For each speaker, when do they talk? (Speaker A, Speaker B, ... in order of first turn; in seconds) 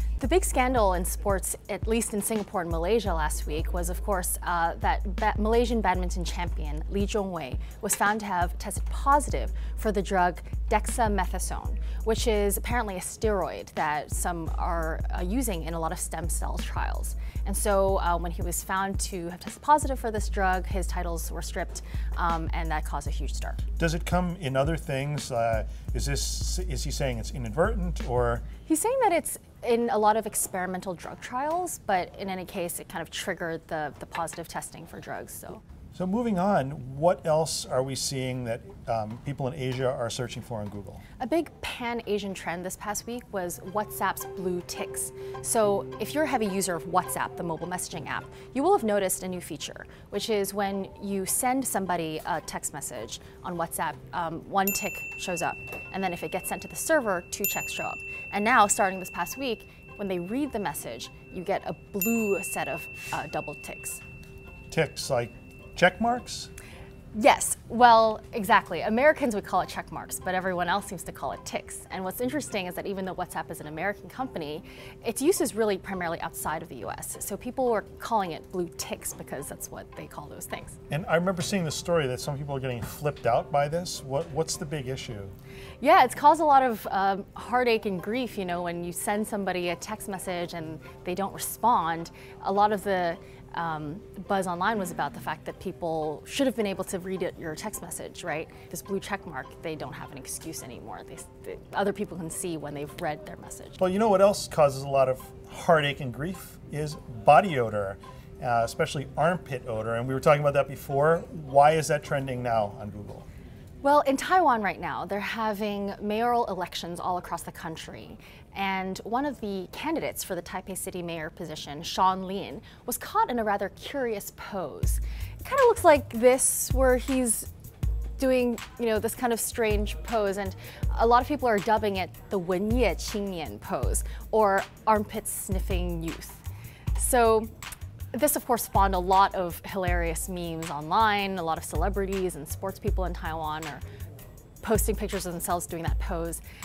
Speaker A: 0.2-23.6, 28.7-35.6, 41.2-64.0, 67.1-80.8, 85.8-103.8, 113.8-127.5, 128.2-136.4, 136.9-137.5, 138.1-143.8, 144.6-146.4
Speaker B: 23.8-28.4, 35.9-41.0, 64.7-66.5, 80.9-85.3, 103.8-113.3